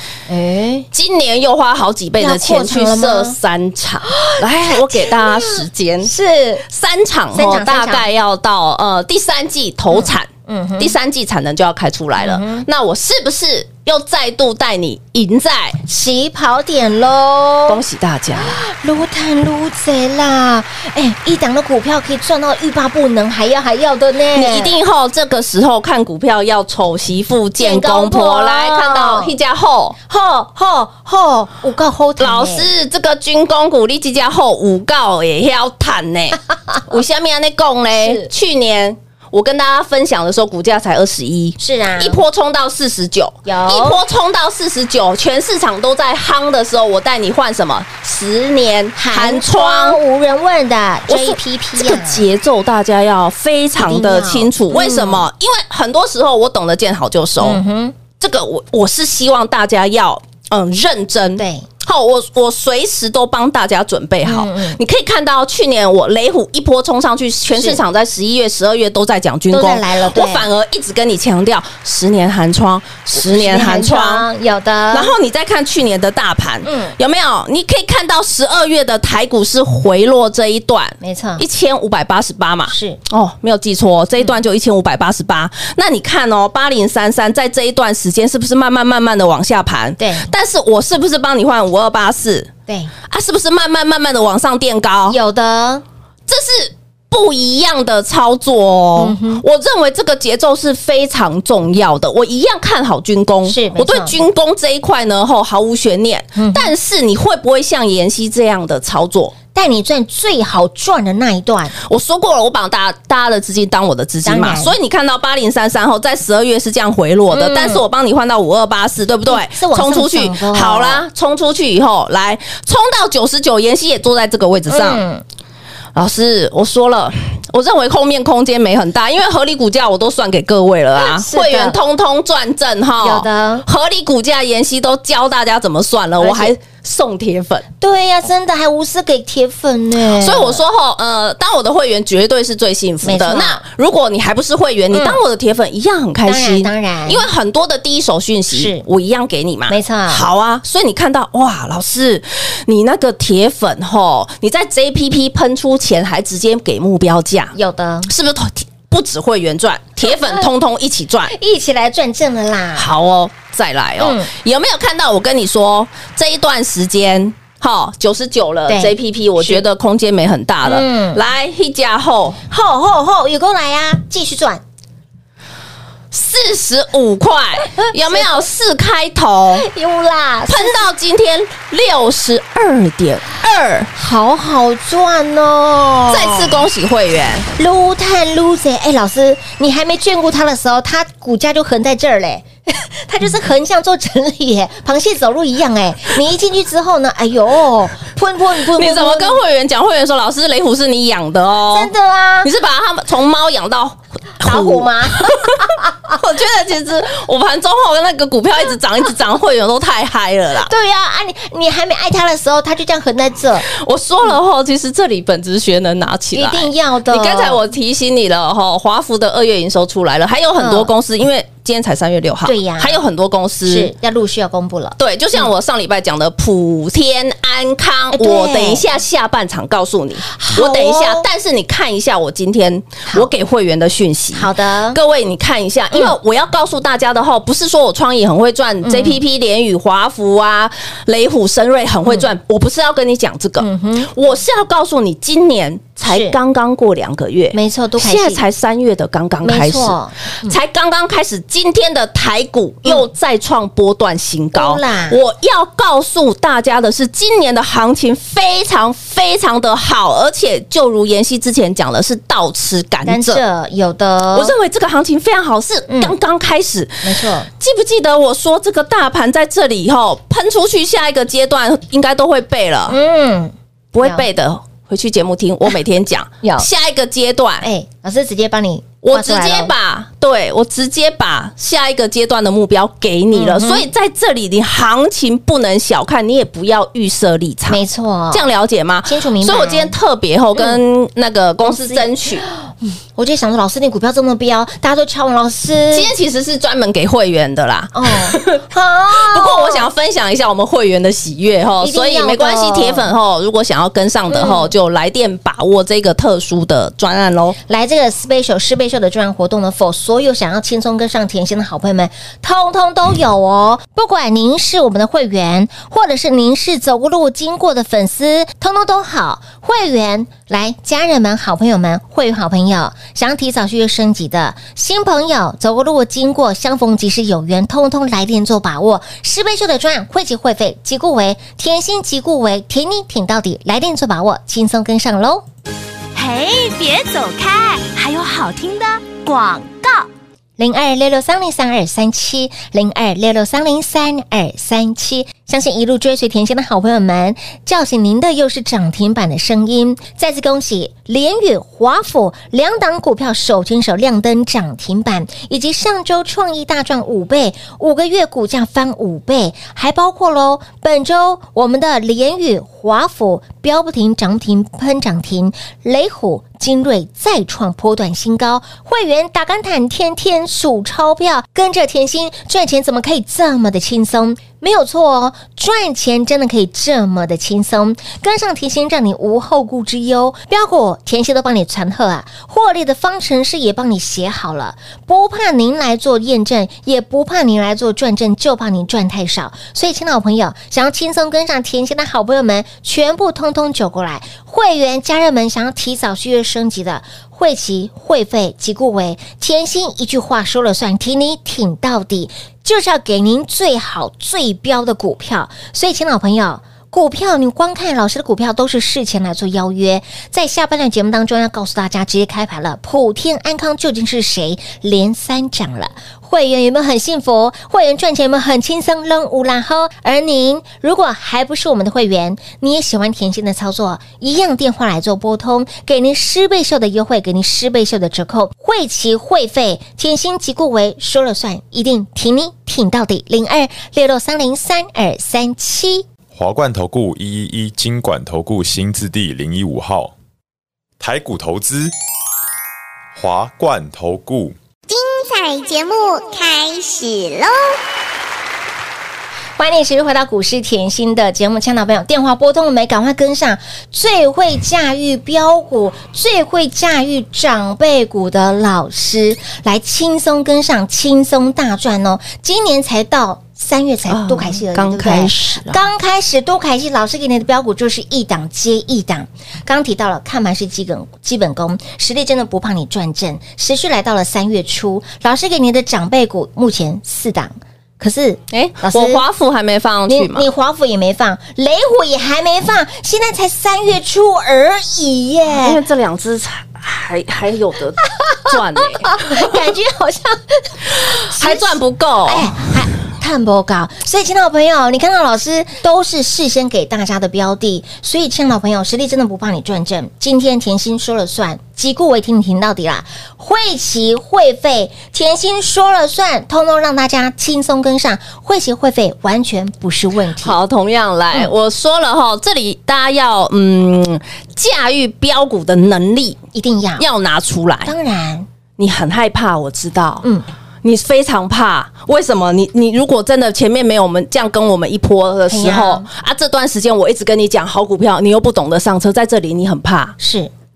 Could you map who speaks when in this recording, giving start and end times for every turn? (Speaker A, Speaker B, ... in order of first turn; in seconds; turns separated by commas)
Speaker A: 0.3-0.9, Speaker B: 0.9-6.1, Speaker A: 2.2-3.4, Speaker A: 4.1-6.6, Speaker B: 6.7-15.8, Speaker A: 7.3-8.1, Speaker A: 9.9-10.9, Speaker A: 12.2-12.7, Speaker A: 15.9-17.8, Speaker B: 17.7-18.7, Speaker A: 18.4-24.7, Speaker B: 24.3-30.0, Speaker A: 27.6-29.3, Speaker A: 30.1-32.7, Speaker B: 32.2-50.0, Speaker A: 38.0-38.3, Speaker A: 41.6-42.2, Speaker A: 43.5-44.0, Speaker A: 49.0-52.2, Speaker B: 51.1-57.6, Speaker A: 53.8-55.3, Speaker A: 57.4-58.0, Speaker B: 58.2-74.3, Speaker A: 61.4-61.7, Speaker A: 64.2-64.8, Speaker A: 67.5-67.8, Speaker A: 69.5-70.5, Speaker A: 73.1-75.1, Speaker B: 74.9-92.5, Speaker A: 76.7-77.0, Speaker A: 81.0-81.4, Speaker A: 82.7-83.0, Speaker A: 90.0-90.3, Speaker B: 93.1-95.2, Speaker A: 95.1-95.8, Speaker B: 96.3-109.3, Speaker A: 99.0-99.4, Speaker A: 103.5-104.2, Speaker A: 106.4-106.7, Speaker A: 109.5-111.7, Speaker B: 111.8-125.0, Speaker A: 114.2-114.7, Speaker A: 117.3-117.8, Speaker A: 119.3-121.0, Speaker A: 124.7-125.2, Speaker B: 126.0-137.7, Speaker A: 131.0-131.8, Speaker A: 133.0-133.7, Speaker A: 136.2-136.5, Speaker A: 137.8-140.6, Speaker B: 140.2-157.6, Speaker A: 143.0-143.6, Speaker A: 144.9-145.2, Speaker A: 146.3-147.3, Speaker A: 148.5-148.8, Speaker A: 149.7-150.2, Speaker A: 157.5-158.1, Speaker B: 158.1-161.3, Speaker A: 160.0-160.4, Speaker A: 161.3-162.9, Speaker B: 162.8-172.4, Speaker A: 164.0-164.3, Speaker A: 168.7-169.6, Speaker A: 170.7-171.2, Speaker A: 172.5-174.6, Speaker B: 176.1-179.7, Speaker A: 177.7-178.4, Speaker A: 179.6-180.8, Speaker B: 180.5-183.9, Speaker A: 184.0-186.6, Speaker B: 186.1-187.5, Speaker A: 187.6-199.4, Speaker B: 198.7-201.9, Speaker A: 201.7-202.5, Speaker B: 202.4-210.7, Speaker A: 204.4-206.2, Speaker A: 210.7-213.7, Speaker B: 213.7-223.9, Speaker A: 216.3-217.6, Speaker A: 220.6-220.9, Speaker A: 222.5-223.0, Speaker A: 223.7-225.5, Speaker B: 225.0-263.4, Speaker A: 228.1-228.8, Speaker A: 230.2-231.3, Speaker A: 234.3-235.0, Speaker A: 238.8-239.2, Speaker A: 243.6-244.1, Speaker A: 246.1-246.3, Speaker A: 247.5-248.4, Speaker A: 249.4-250.6, Speaker A: 254.5-255.2, Speaker A: 263.1-264.5, Speaker B: 264.3-273.0, Speaker A: 265.9-266.1, Speaker A: 267.0-267.5, Speaker A: 272.9-274.2, Speaker B: 273.9-277.7, Speaker A: 276.4-276.7, Speaker A: 277.6-279.7, Speaker B: 279.0-287.8, Speaker A: 283.3-283.9, Speaker A: 287.7-288.5, Speaker B: 288.3-292.4, Speaker A: 289.1-289.9, Speaker A: 291.6-296.1, Speaker B: 295.9-307.6, Speaker A: 297.9-299.9, Speaker A: 301.8-303.1, Speaker A: 304.3-304.7, Speaker A: 307.7-335.4, Speaker C: 336.1-340.1, Speaker A: 340.6-436.1, Speaker D: 436.3-440.1, Speaker D: 441.0-441.9, Speaker D: 443.1-444.6, Speaker E: 444.9-447.8, Speaker A: 449.6-479.2, Speaker B: 464.1-465.8, Speaker B: 478.5-480.5, Speaker A: 480.1-485.8, Speaker B: 485.5-489.6, Speaker A: 488.0-510.6, Speaker B: 491.1-492.6, Speaker B: 510.4-516.4, Speaker A: 516.5-517.0, Speaker B: 517.0-517.9, Speaker A: 517.9-518.5, Speaker B: 518.8-520.3, Speaker B: 520.8-530.2, Speaker A: 525.5-526.1, Speaker A: 530.2-530.5